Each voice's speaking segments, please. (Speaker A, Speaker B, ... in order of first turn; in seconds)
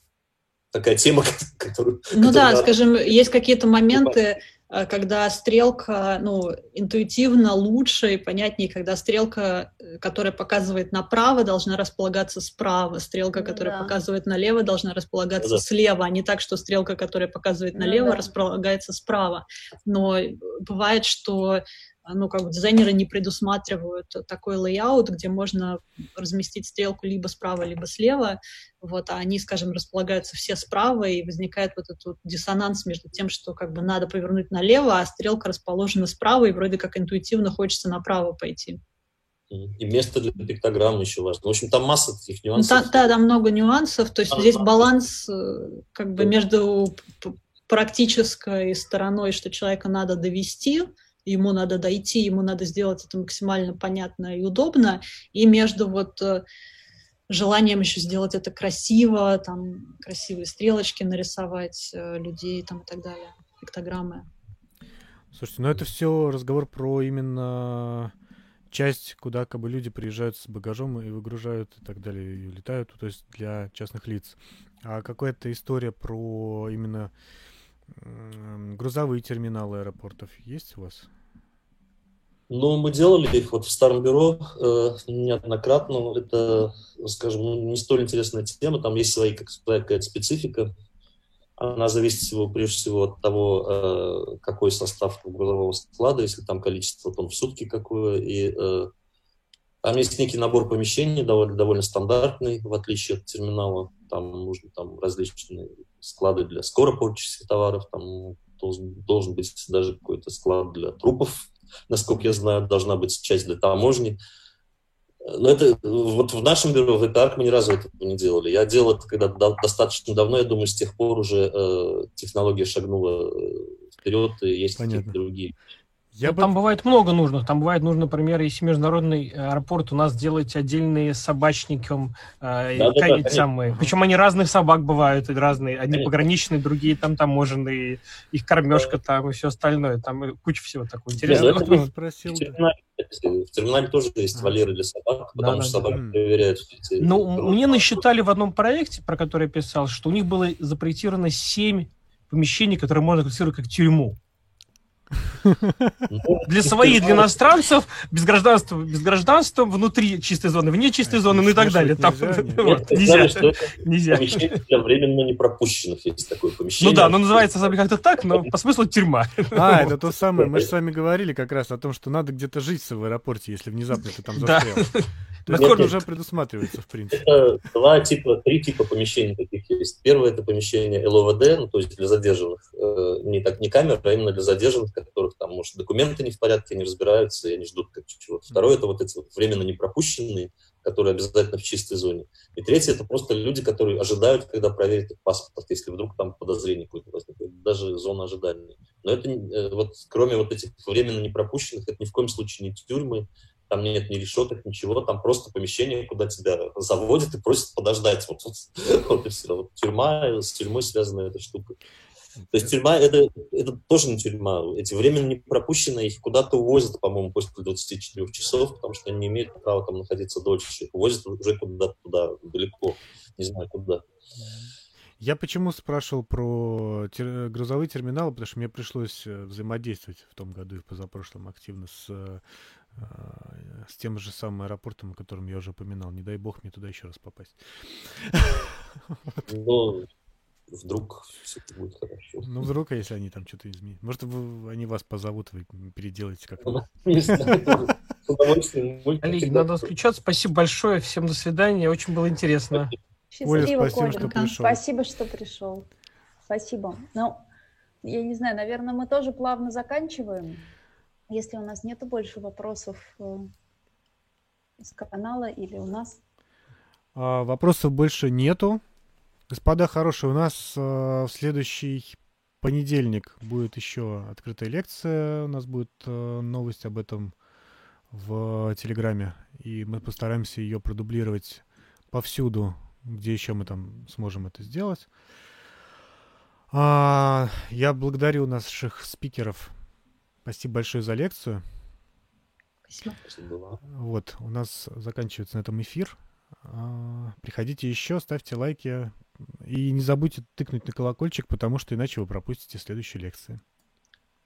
Speaker A: 0.7-2.7, 3.9-4.2, 15.4-15.6, 39.5-43.1, 44.3-44.9, 82.5-90.7, 91.6-98.9, 99.8-114.2, 115.2-125.5, 132.8-133.5, 135.9-136.2, 141.2-147.9, 156.1-157.3, 162.6-167.7, 170.4-170.7, 175.5-175.9, 177.1-211.8, 212.5-224.1, 239.5-240.1, 240.7-242.5, 246.6-249.8, 293.2-293.8
Speaker B: 2.2-38.8, 42.6-56.4, 57.3-64.3, 253.6-254.6, 292.9-293.2
Speaker C: 13.3-14.0, 17.7-18.3, 253.3-255.9, 256.5-257.5, 258.0-260.7, 261.3-263.5, 264.8-266.2
Speaker D: 65.3-68.1, 68.7-77.1, 77.9-81.1, 124.8-125.2, 126.2-126.5, 141.3-142.6, 145.9-146.2, 161.0-162.8, 169.5-174.9, 175.5-177.3, 212.4-212.7, 224.4-238.7, 242.4-246.8, 247.3-247.8, 253.4-254.8, 267.1-268.8, 269.5-277.4, 278.1-285.1, 286.7-289.8, 290.4-291.7, 293.9-303.6
Speaker E: 126.2-141.9, 145.4-145.9, 147.0-154.2, 156.4-164.6, 166.8-170.0, 174.3-176.0, 249.2-252.9